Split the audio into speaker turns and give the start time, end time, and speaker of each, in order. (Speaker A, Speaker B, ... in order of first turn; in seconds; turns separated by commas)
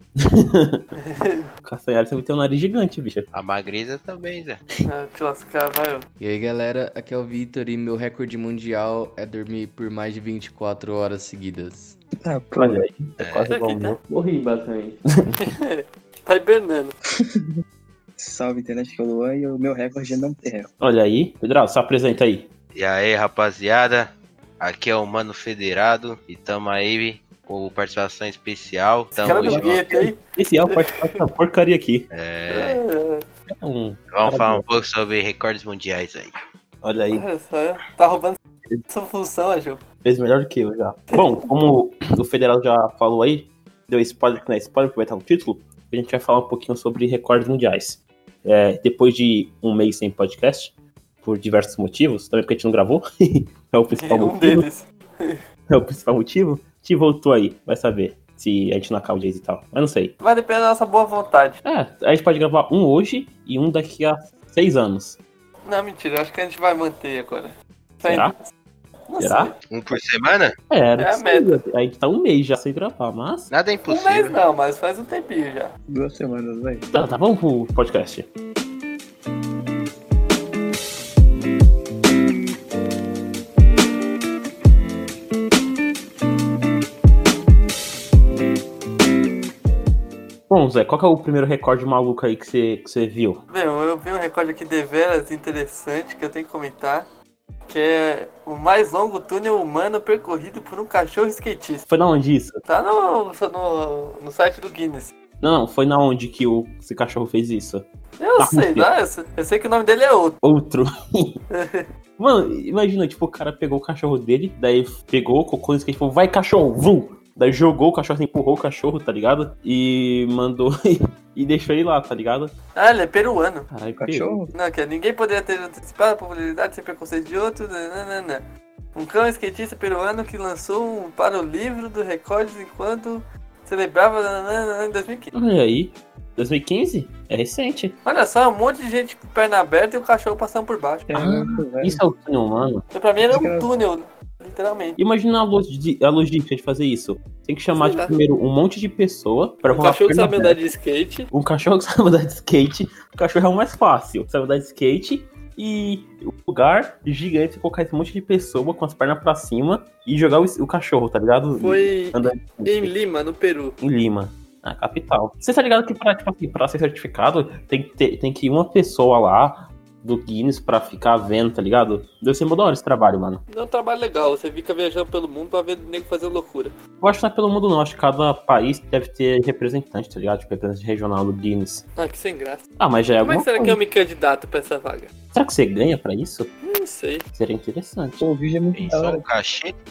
Speaker A: 0.2-0.9, Speaker B: 1.0-1.5, Speaker A: 1.6-3.3, Speaker C: 3.3-4.6, Speaker B: 4.9-6.0, Speaker D: 6.2-11.9, Speaker E: 12.2-12.9, Speaker A: 12.6-14.0, Speaker C: 13.2-13.5, Speaker B: 13.5-13.9, Speaker D: 14.0-15.0, Speaker B: 15.4-16.9, Speaker E: 17.2-17.4, Speaker E: 18.2-20.7, Speaker A: 20.8-22.5, Speaker C: 22.7-30.0, Speaker B: 29.1-31.0, Speaker A: 29.2-32.1, Speaker C: 32.1-32.8, Speaker B: 32.5-33.2, Speaker A: 33.6-34.6, Speaker C: 34.1-36.4, Speaker A: 36.8-37.2, Speaker B: 37.1-38.4, Speaker B: 38.9-39.8, Speaker A: 40.0-54.6, Speaker B: 41.1-41.5, Speaker B: 54.0-55.4, Speaker A: 55.7-60.1, Speaker B: 60.2-61.6, Speaker A: 61.6-65.2, Speaker B: 65.6-68.4, Speaker A: 68.0-68.3, Speaker B: 69.1-69.5, Speaker A: 69.2-69.5, Speaker C: 69.7-70.5, Speaker A: 70.7-73.5, Speaker B: 71.0-71.6, Speaker C: 73.5-74.4, Speaker B: 73.9-75.7, Speaker E: 75.9-76.8, Speaker A: 76.9-78.3, Speaker A: 90.5-93.4, Speaker B: 93.5-97.1, Speaker B: 97.7-101.8, Speaker A: 101.9-102.6, Speaker B: 102.7-105.1, Speaker A: 105.4-107.8, Speaker B: 108.2-110.4, Speaker A: 108.4-108.9, Speaker A: 110.4-111.4, Speaker B: 111.5-111.8, Speaker A: 112.2-122.5, Speaker B: 122.8-123.7, Speaker A: 123.7-124.4, Speaker E: 124.0-124.5, Speaker B: 124.5-135.3, Speaker A: 135.3-138.0, Speaker B: 138.0-141.1, Speaker E: 141.1-142.0, Speaker A: 141.1-142.8, Speaker B: 142.9-145.0, Speaker E: 143.2-143.7, Speaker A: 145.0-150.6, Speaker B: 147.7-148.2, Speaker B: 149.7-151.3, Speaker A: 151.3-162.9, Speaker B: 161.6-163.8, Speaker A: 163.8-173.4, Speaker B: 173.5-176.7, Speaker A: 177.0-181.8, Speaker B: 182.0-182.6, Speaker A: 182.8-183.8, Speaker B: 183.2-185.1, Speaker A: 185.3-186.5, Speaker B: 186.6-187.2, Speaker A: 187.3-188.2, Speaker E: 188.2-189.2, Speaker C: 188.7-189.7